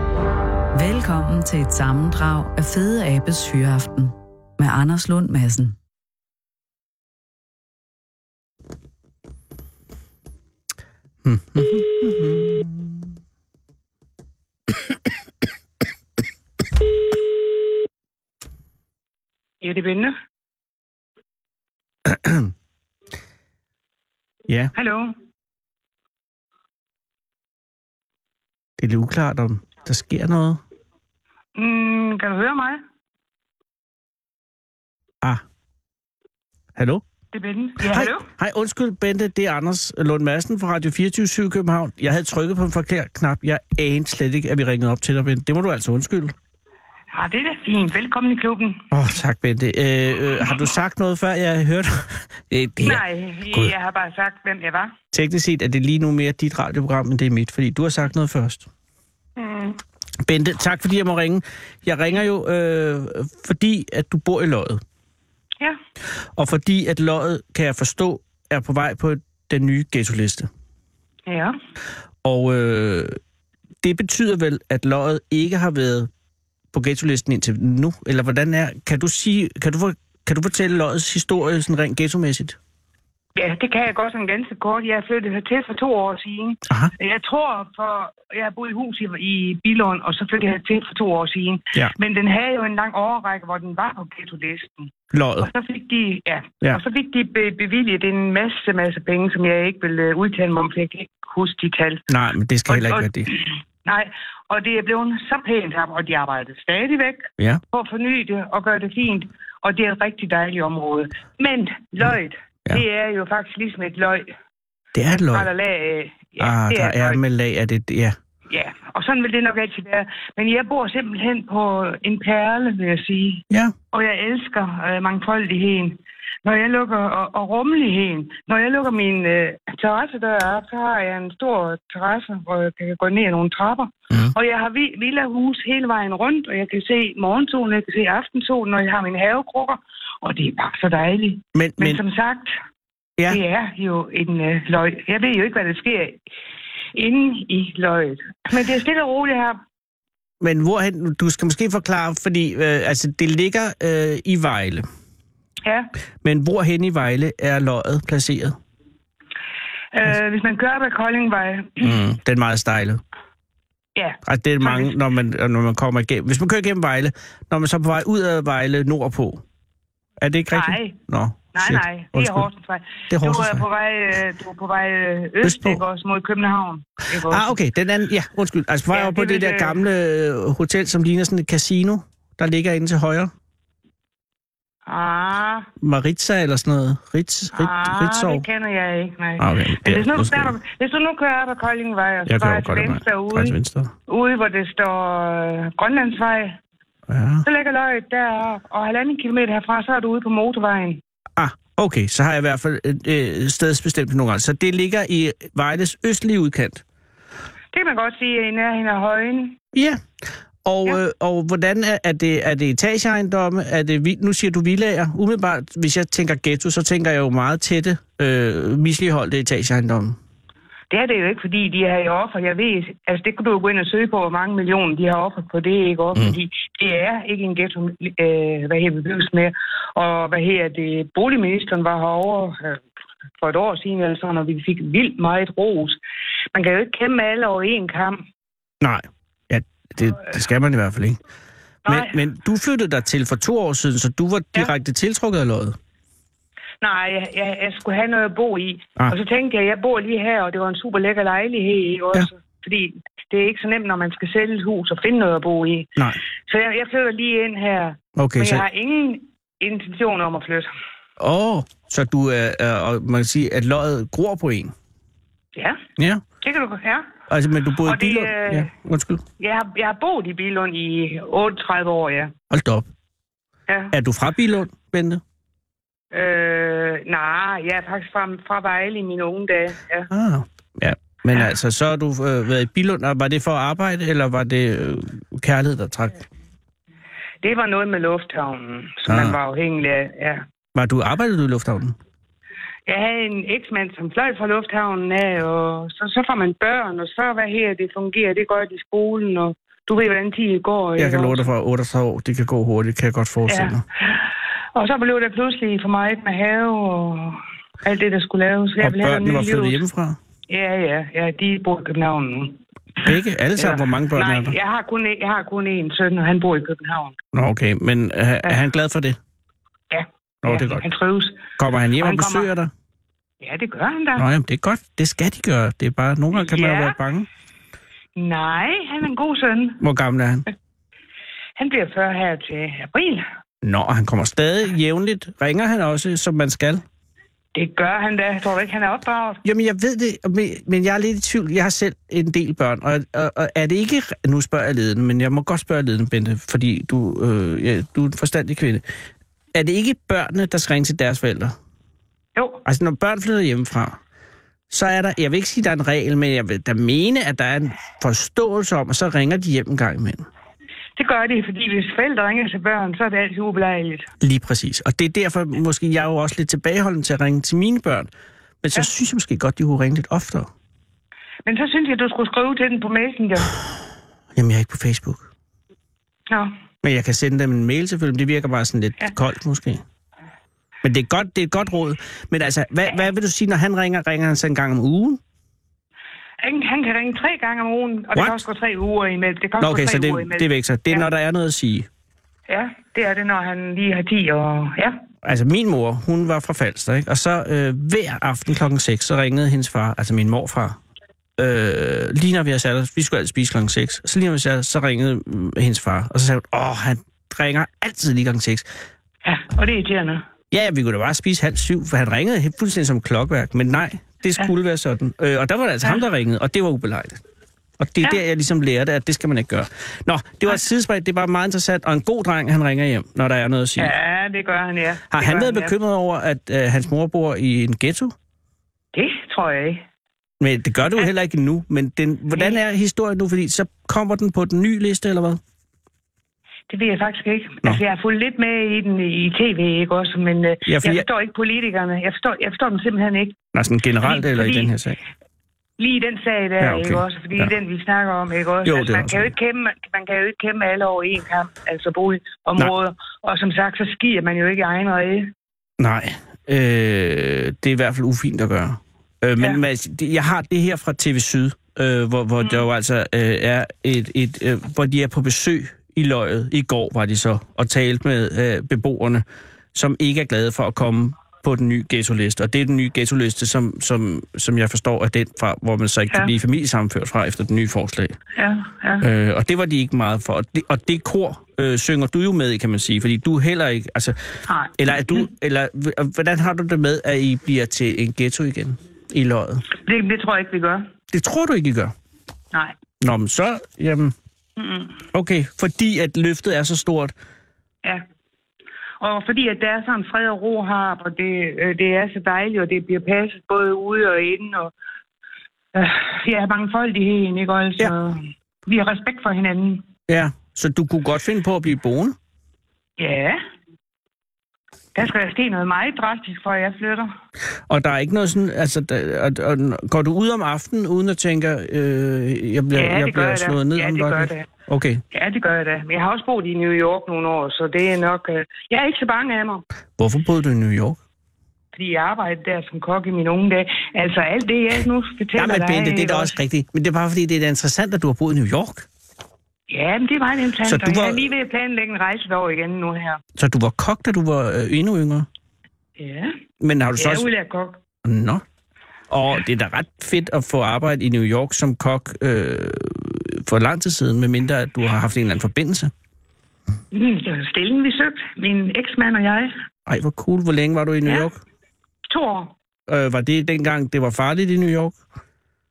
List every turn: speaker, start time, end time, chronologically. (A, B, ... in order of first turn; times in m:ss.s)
0:00.7-0:05.8 A
0:11.2-0:13.0 B
0:19.6-0:20.1 C
0:22.0-0:22.5 B
0:24.5-0:24.7 B
0:24.7-0:25.1 C
0:28.8-0:30.6 B
0:31.6-0:32.8 C
0:36.8-0:37.0 B
0:37.3-0:38.2 C
0:37.8-0:46.3 B
0:47.1-0:48.8 C
0:48.9-0:53.0 B
0:52.8-0:54.9 C
0:55.1-0:58.7 B
0:59.4-0:59.8 C
1:00.2-1:04.8 B
1:06.4-1:10.5 B
1:11.3-1:11.6 C
1:12.2-1:13.2 B
1:13.8-1:16.1 B
1:16.7-1:22.6 B
1:23.4-1:42.0 C
1:26.7-1:26.9 B
1:35.1-1:35.5 B
1:42.1-1:43.3 B
1:42.7-1:54.3 C
1:54.9-1:55.5 B
1:55.1-1:57.2 C
1:56.4-1:58.2 B
1:58.5-2:22.5 C
2:03.5-2:03.7 B
2:21.5-2:22.0 B
2:23.3-2:26.2 C
2:26.9-2:29.6 C
2:30.4-2:34.9 B
2:36.2-2:38.5 B
2:39.9-2:42.0 C
2:41.8-2:43.0 B
2:44.0-2:44.9 C
2:44.2-2:49.4 B
2:50.2-2:52.5 B
2:50.5-2:51.0 C
2:51.5-2:57.5 C
2:53.1-2:53.6 B
2:55.4-2:55.8 B
2:57.3-3:03.3 B
2:58.9-2:59.8 C
3:04.9-3:05.7 C
3:05.8-3:08.4 B
3:07.5-3:13.5 C
3:09.4-3:10.5 B
3:12.3-3:13.9 B
3:14.1-3:16.6 C
3:17.1-3:17.4 B
3:17.4-3:21.0 C
3:21.4-3:26.8 B
3:27.7-3:29.6 C
3:29.7-3:30.0 B
3:30.6-3:40.2 B
3:40.9-3:52.8 C
3:53.4-3:56.0 C
3:56.5-3:58.2 C
3:58.8-4:01.2 B
4:01.8-4:02.2 C
4:01.9-4:05.8 B
4:06.8-4:15.9 C
4:16.5-4:20.7 C
4:18.2-4:18.6 B
4:21.2-4:24.7 B
4:25.6-4:25.8 C
4:26.4-4:27.1 C
4:27.3-4:29.2 B
4:27.8-4:28.7 C
4:29.4-4:32.3 C
4:32.5-4:32.9 B
4:33.7-4:33.9 C
4:33.9-4:35.2 B
4:36.1-4:40.1 C
4:40.1-4:46.2 B
4:47.4-4:50.4 C
4:49.1-4:49.4 B
4:50.7-4:52.0 B
4:52.9-5:01.5 C
5:01.0-5:03.8 B
5:03.5-5:09.8 C
5:08.8-5:10.2 B
5:10.5-5:17.2 C
5:13.0-5:14.5 B
5:17.3-5:19.2 B
5:19.9-5:21.4 C
5:20.4-5:20.8 B
5:21.6-5:22.7 B
5:22.0-5:22.5 C
5:23.4-5:24.2 C
5:24.2-5:27.3 B
5:26.4-5:27.0 C
5:28.2-5:29.8 C
5:29.8-5:30.4 B
5:31.6-5:33.2 C
5:33.6-5:36.8 B
5:37.5-5:39.4 C
5:39.4-5:48.8 B
5:49.5-5:51.5 B
5:52.4-5:52.6 C
5:52.6-5:54.0 B
5:54.7-6:00.2 B
6:01.0-6:04.1 C
6:04.2-6:08.1 B
6:08.6-6:10.5 B
6:11.4-6:13.6 C
6:14.4-6:15.3 B
6:16.8-6:19.8 B
6:20.8-6:25.2 B
6:26.4-6:31.1 C
6:29.6-6:31.9 B
6:32.5-6:35.0 C
6:35.2-6:40.8 B
6:41.4-6:48.6 B
6:49.2-6:50.2 C
6:50.5-6:57.2 B
6:57.8-7:03.9 B
7:03.8-7:05.7 C
7:05.1-7:08.1 B
7:08.9-7:09.8 C
7:10.4-7:15.4 B
7:12.3-7:12.6 C
7:16.7-7:23.4 C
7:20.6-7:21.0 B
7:23.5-7:25.0 B
7:24.0-7:24.7 C
7:25.8-7:35.3 C
7:26.6-7:27.5 B
7:28.6-7:29.3 B
7:35.8-7:49.2 B
7:49.7-7:58.2 B
7:58.4-7:59.0 C
7:59.0-8:09.6 B
8:04.5-8:05.3 C
8:09.8-8:10.8 C
8:11.1-8:11.9 B
8:13.0-8:14.1 B
8:14.6-8:15.0 C
8:15.1-8:17.1 B
8:19.0-8:24.7 C
8:25.7-8:29.8 C
8:30.1-8:32.2 B
8:33.0-8:33.4 C
8:34.9-8:37.1 C
8:37.7-8:45.0 B
8:42.7-8:44.5 C
8:45.1-8:49.6 C
8:50.0-8:51.0 B
8:51.7-8:56.4 C
8:55.4-8:58.9 B
8:59.7-9:03.2 C
9:00.6-9:01.2 B
9:03.4-9:05.3 B
9:06.0-9:06.3 C
9:06.6-9:07.3 B
9:07.0-9:07.8 C
9:08.0-9:08.4 B
9:09.1-9:15.9 B
9:16.9-9:19.5 C
9:19.9-9:21.4 B
9:22.1-9:22.5 C
9:22.9-9:25.0 B